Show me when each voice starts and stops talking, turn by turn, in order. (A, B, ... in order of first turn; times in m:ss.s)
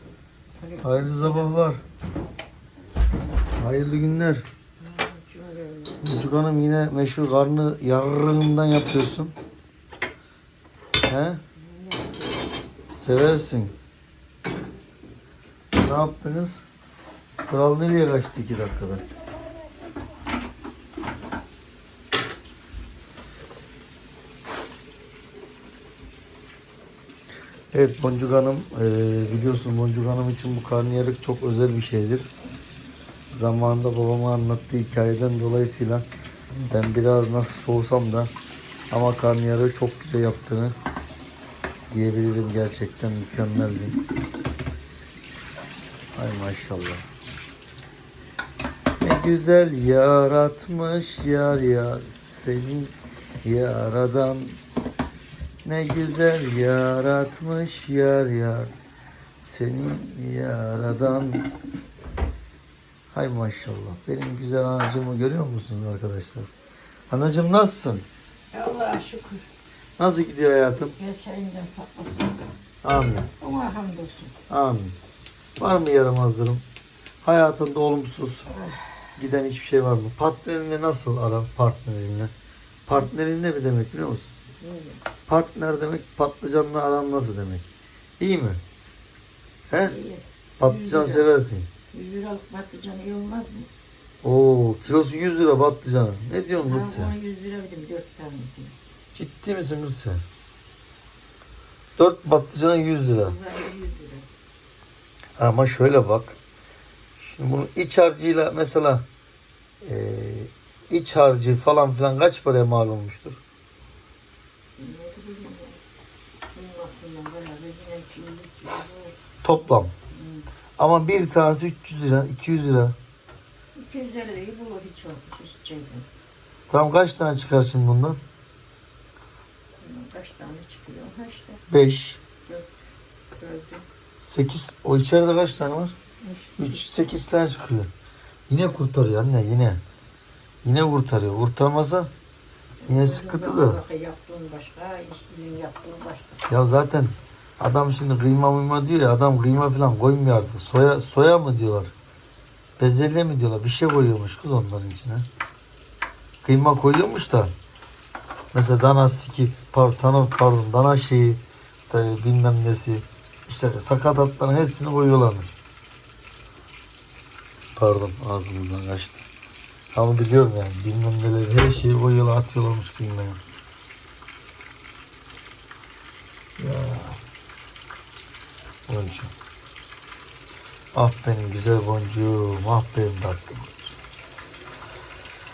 0:00.6-0:01.6 A
0:00.8-0:01.8 B
0:03.6-0:04.4 B
0:04.8-0:06.0 A
0:06.0-0:09.3 B
0:11.0-0:11.4 B
0:11.6-0:12.4 A
0:12.9-0:13.7 B
0:15.7-0:16.6 B
0:17.5-0:19.0 B
0:27.7-0:32.3 B
0:33.3-0:36.0 B
0:36.7-0:38.3 B
0:38.9-0:40.8 B
0:41.9-0:44.2 B
0:46.1-0:47.0 B
0:49.0-0:54.6 B
0:55.6-0:58.7 B
0:59.4-1:01.5 B
1:03.1-1:06.5 B
1:07.1-1:08.0 B
1:08.5-1:09.5 A
1:10.0-1:10.9 B
1:10.8-1:12.5 A
1:12.8-1:13.3 B
1:13.4-1:14.4 A
1:14.5-1:15.0 B
1:15.6-1:16.6 B
1:17.2-1:18.5 B
1:18.5-1:18.8 A
1:19.2-1:22.3 B
1:22.9-1:24.3 B
1:24.6-1:25.0 A
1:25.3-1:27.6 B
1:28.2-1:28.6 B
1:29.7-1:30.0 B
1:29.8-1:31.3 A
1:30.6-1:31.7 B
1:31.9-1:33.7 A
1:34.2-1:37.1 B
1:36.6-1:38.8 A
1:39.1-1:40.2 B
1:42.0-1:43.4 B
1:43.1-1:44.3 A
1:45.4-1:46.4 B
1:47.2-1:49.0 B
1:49.8-1:53.4 B
1:54.8-1:55.8 A
1:56.5-1:59.2 A
1:59.4-1:59.9 B
2:00.1-2:00.5 A
2:00.8-2:03.0 B
2:03.7-2:06.1 A
2:06.7-2:08.2 B
2:09.8-2:11.6 A
2:11.7-2:12.2 B
2:13.3-2:13.8 A
2:14.2-2:15.9 B
2:16.2-2:16.9 A
2:16.6-2:17.9 B
2:18.5-2:19.8 B
2:20.6-2:22.1 B
2:22.8-2:26.4 A
2:22.9-2:23.8 B
2:26.5-2:31.9 B
2:32.8-2:35.2 B
2:36.4-2:37.5 B
2:38.5-2:45.6 B
2:47.7-2:49.2 B
2:49.9-2:53.4 B
2:56.6-2:57.2 B
2:58.9-2:59.3 B
3:00.9-3:03.9 B